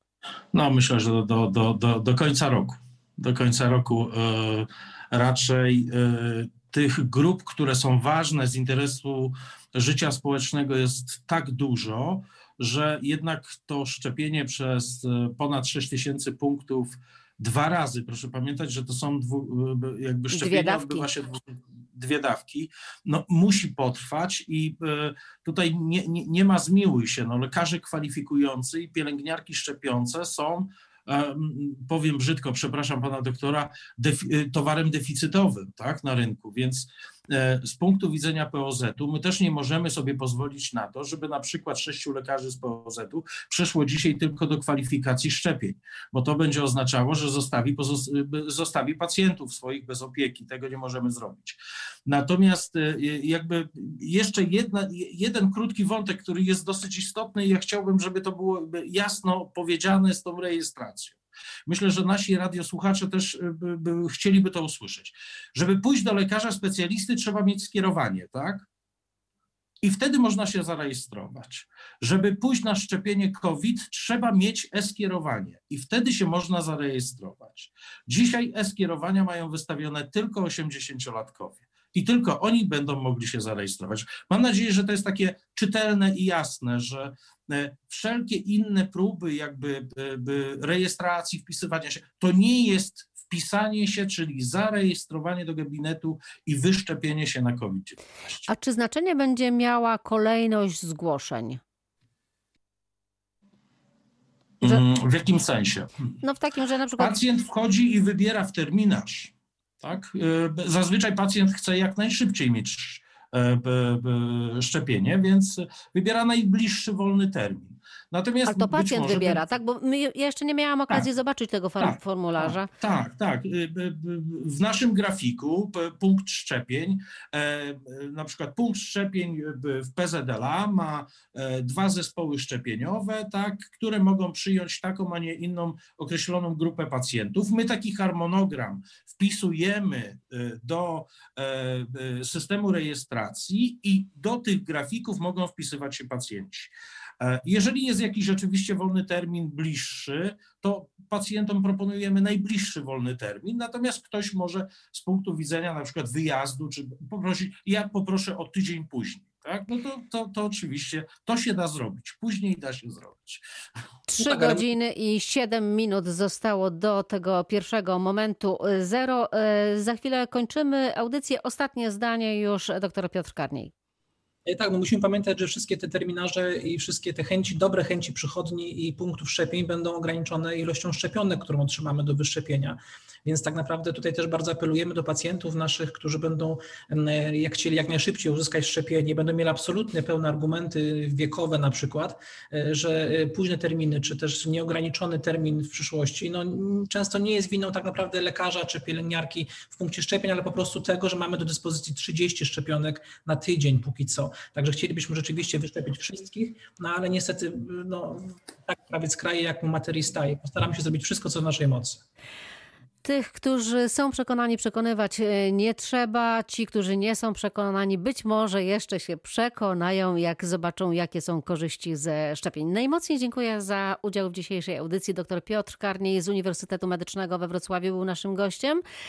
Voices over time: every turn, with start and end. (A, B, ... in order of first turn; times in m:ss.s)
0:00.5-1:08.7 A
0:20.3-0:21.1 B
1:09.8-1:38.4 A
1:38.5-1:41.6 B
1:44.6-1:45.9 A
1:46.2-1:47.2 B
1:47.0-1:59.4 A
1:58.4-2:02.7 B
2:01.8-2:43.4 A
2:44.1-2:53.7 B
2:44.2-2:44.7 C
2:54.4-3:32.0 C
3:33.0-3:48.8 B